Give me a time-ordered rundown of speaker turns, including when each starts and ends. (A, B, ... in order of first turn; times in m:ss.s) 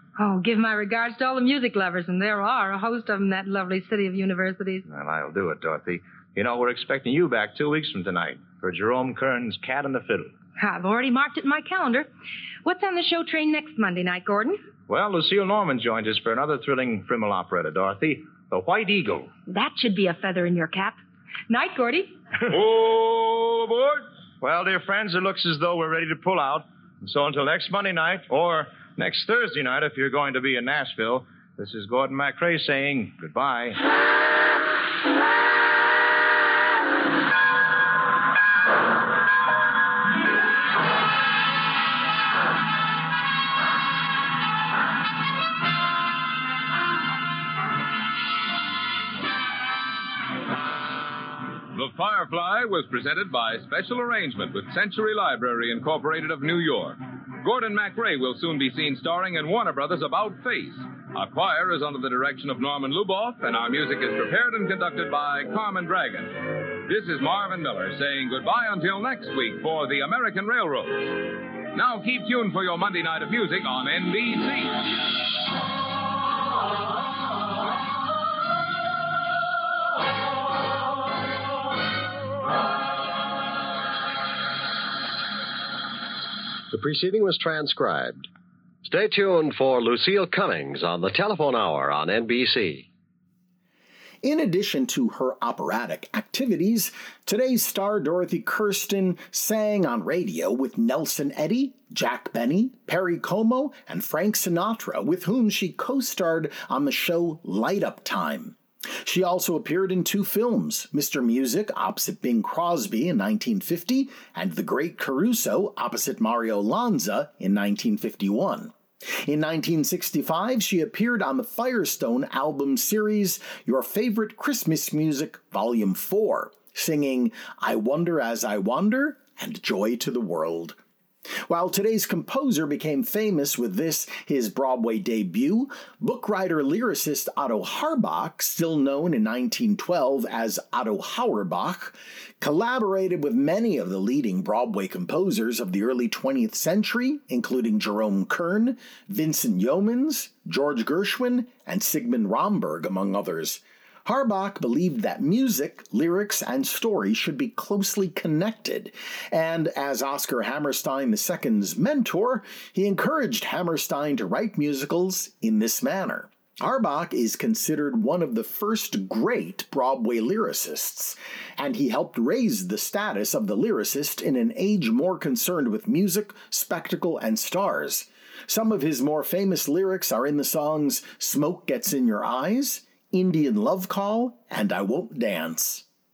0:00.2-0:04.8 A
0:04.9-0:10.3 B
0:10.6-0:12.1 A
0:12.6-0:14.6 A
0:14.9-0:19.3 B
0:19.5-0:21.0 A
0:21.5-0:22.1 A
0:22.5-0:24.1 C
0:24.4-0:33.8 B
0:51.7-1:14.9 C
1:26.7-1:28.3 D
1:28.8-1:32.9 D
1:34.2-2:10.8 E
2:11.5-3:05.9 E